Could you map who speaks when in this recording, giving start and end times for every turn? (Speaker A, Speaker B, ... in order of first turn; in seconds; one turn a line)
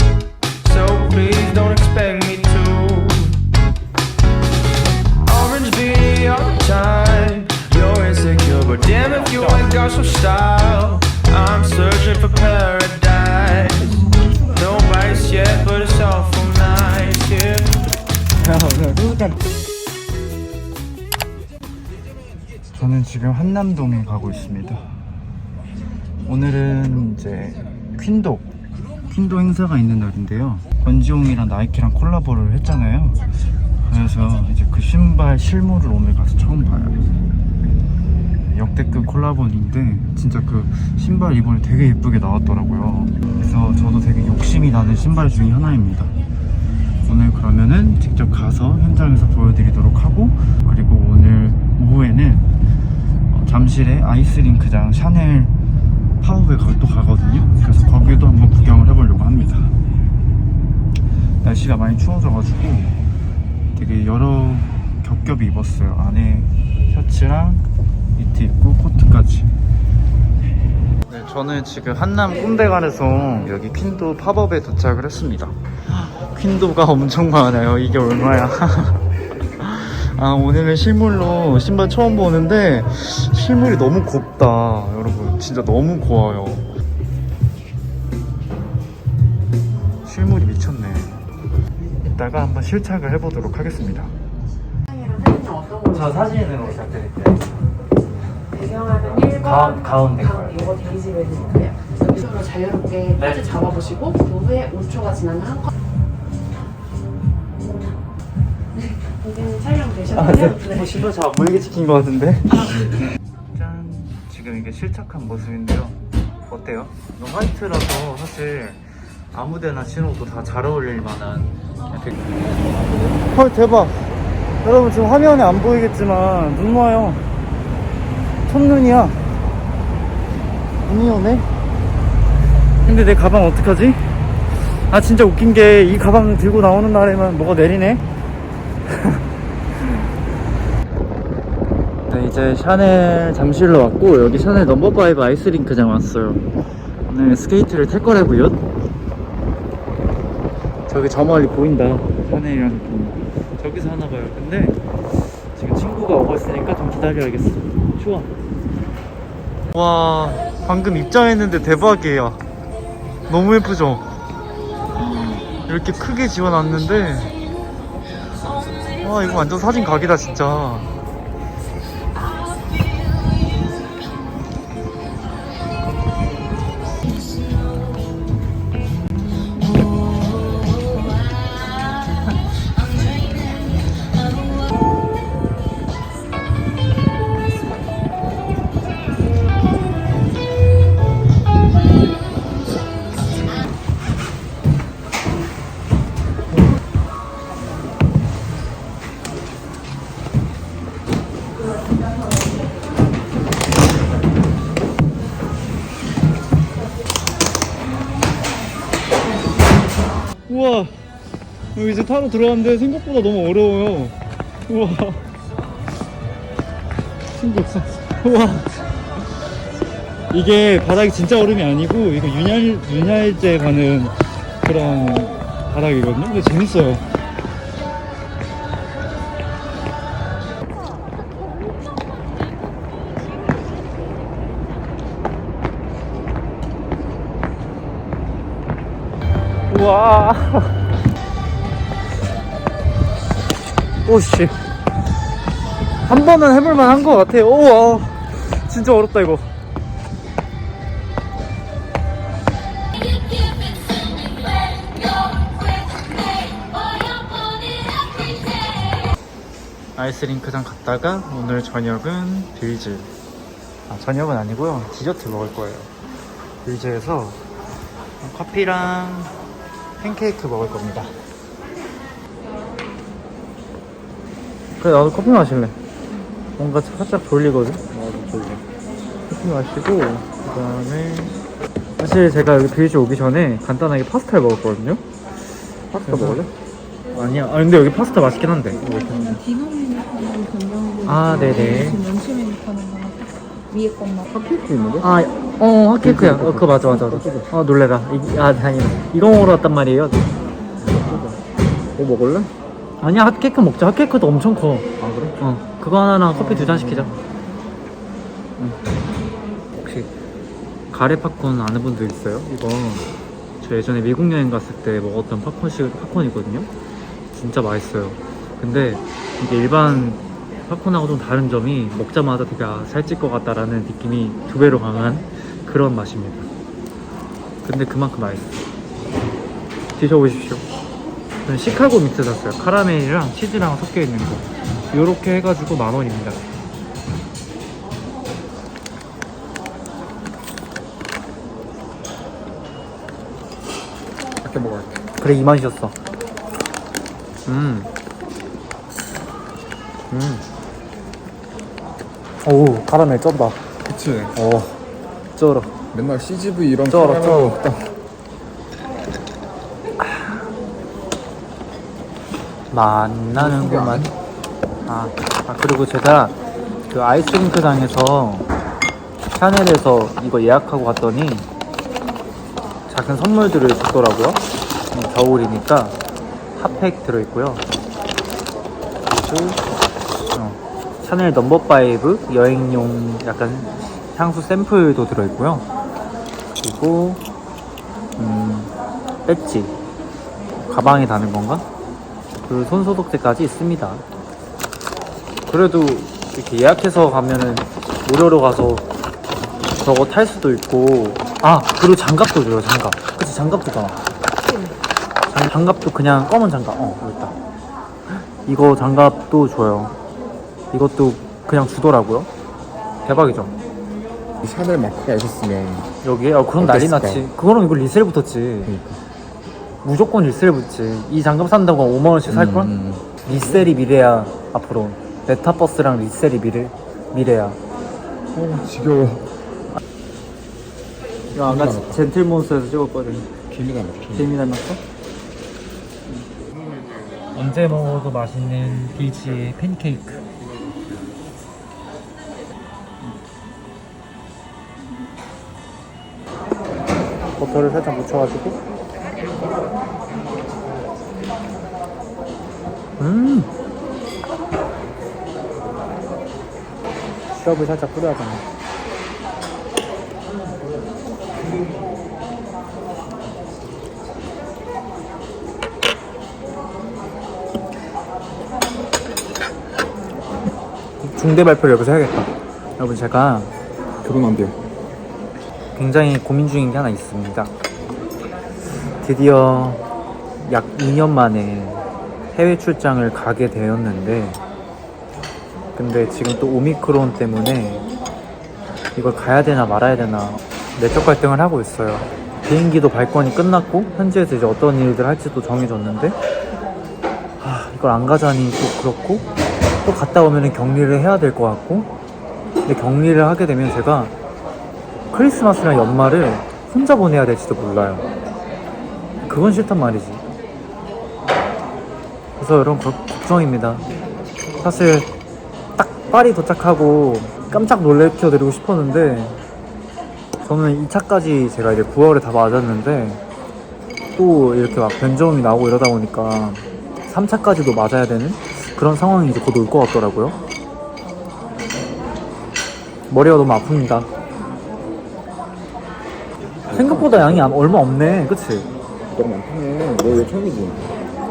Speaker A: 0.6-3.4
Speaker A: 5.2-17.8
Speaker B: 9.1-9.7
Speaker B: 18.4-19.4
Speaker B: 22.7-24.9
Speaker B: 26.2-28.5
Speaker B: 29.1-33.3
Speaker B: 33.8-37.0
Speaker B: 38.5-46.1
Speaker B: 47.0-52.4
Speaker B: 53.3-55.5
Speaker B: 56.2-59.7
Speaker B: 61.4-63.0
Speaker B: 63.7-67.6
Speaker B: 68.2-69.5
Speaker B: 71.1-79.0
Speaker B: 79.6-86.7
Speaker B: 90.0-91.2
Speaker B: 92.0-94.1
Speaker C: 94.9-96.8
Speaker B: 95.9-97.5
Speaker C: 98.5-105.7
Speaker B: 99.1-100.7
Speaker B: 103.2-103.6
Speaker C: 109.0-111.1
Speaker B: 110.1-112.7
Speaker B: 113.5-122.3
Speaker B: 123.2-124.0
Speaker B: 124.6-127.2
Speaker B: 128.5-129.2
Speaker B: 130.8-131.5
Speaker B: 132.8-134.0
Speaker B: 134.9-138.0
Speaker B: 138.9-139.2
Speaker B: 142.1-146.4
Speaker B: 147.1-148.6
Speaker B: 150.9-154.8
Speaker B: 155.5-158.3
Speaker B: 159.7-162.4
Speaker B: 163.3-164.1
Speaker B: 165.0-167.3
Speaker B: 169.0-170.9
Speaker B: 210.5-210.9
Speaker B: 211.7-214.1
Speaker B: 214.7-215.2
Speaker B: 217.3-218.7
Speaker B: 220.3-227.1
Speaker B: 239.7-240.7
Speaker B: 244.0-244.6
Speaker B: 246.1-249.5
Speaker B: 259.9-263.1
Speaker B: 263.9-265.9
Speaker B: 266.6-267.4
Speaker B: 268.2-269.3
Speaker B: 270.0-271.1
Speaker B: 274.8-275.8
Speaker B: 276.6-277.9
Speaker D: 277.9-278.6
Speaker B: 279.3-281.4
Speaker B: 282.0-285.0
Speaker D: 285.9-286.5
Speaker B: 286.0-286.5
Speaker B: 287.1-289.4
Speaker E: 288.5-294.3
Speaker B: 291.0-292.0
Speaker D: 294.3-295.1
Speaker B: 295.0-300.2
Speaker D: 296.0-297.5
Speaker D: 300.8-301.4
Speaker B: 300.9-301.2
Speaker D: 302.0-302.5
Speaker B: 303.0-307.1
Speaker D: 305.0-305.4
Speaker D: 306.3-307.2
Speaker B: 309.8-310.1
Speaker B: 310.9-313.1
Speaker B: 313.6-316.7
Speaker B: 317.3-326.5
Speaker B: 327.6-328.6
Speaker B: 329.9-330.6
Speaker B: 331.4-336.4
Speaker D: 344.4-345.0
Speaker B: 345.2-345.9
Speaker B: 347.4-347.9
Speaker B: 350.1-350.4
Speaker B: 352.4-353.6
Speaker D: 353.8-354.4
Speaker B: 354.3-354.8
Speaker B: 355.3-355.7
Speaker D: 355.9-357.9
Speaker B: 356.9-357.5
Speaker B: 360.0-360.3
Speaker B: 362.7-364.1
Speaker D: 363.3-364.1
Speaker B: 364.9-366.4
Speaker B: 366.9-368.5
Speaker B: 369.3-371.5
Speaker B: 372.9-376.0
Speaker B: 376.6-377.6
Speaker B: 379.1-379.6
Speaker B: 380.3-385.6
Speaker B: 386.6-387.2
Speaker B: 388.2-388.7
Speaker B: 389.2-389.7
Speaker B: 390.6-391.6
Speaker B: 392.4-394.0
Speaker B: 395.5-398.8
Speaker B: 399.8-404.0
Speaker B: 405.3-407.4
Speaker B: 408.4-409.9
Speaker B: 410.7-412.3
Speaker B: 413.0-413.5
Speaker D: 414.4-415.9
Speaker B: 416.0-418.7
Speaker D: 416.6-417.3
Speaker D: 418.6-419.0
Speaker B: 419.8-427.6
Speaker D: 422.3-423.7
Speaker D: 428.3-429.2
Speaker D: 431.3-432.1
Speaker B: 431.3-433.3
Speaker D: 433.5-434.4
Speaker B: 434.1-434.8
Speaker B: 437.3-440.2
Speaker B: 447.4-448.6
Speaker B: 453.0-453.5
Speaker B: 457.3-458.4
Speaker B: 471.0-473.5
Speaker D: 474.0-474.5
Speaker B: 475.7-477.5
Speaker B: 479.0-479.8
Speaker B: 480.4-481.8
Speaker B: 482.3-484.4
Speaker B: 485.7-487.8
Speaker B: 488.9-496.1
Speaker B: 497.4-499.2
Speaker B: 499.8-501.9
Speaker B: 502.6-504.1
Speaker B: 505.1-508.0
Speaker B: 509.2-510.2
Speaker B: 512.4-513.8
Speaker B: 514.6-515.1
Speaker B: 515.8-519.4
Speaker B: 520.4-523.2
Speaker B: 524.1-530.4
Speaker B: 533.1-534.1
Speaker D: 536.6-537.7
Speaker B: 536.7-538.7
Speaker D: 539.1-540.9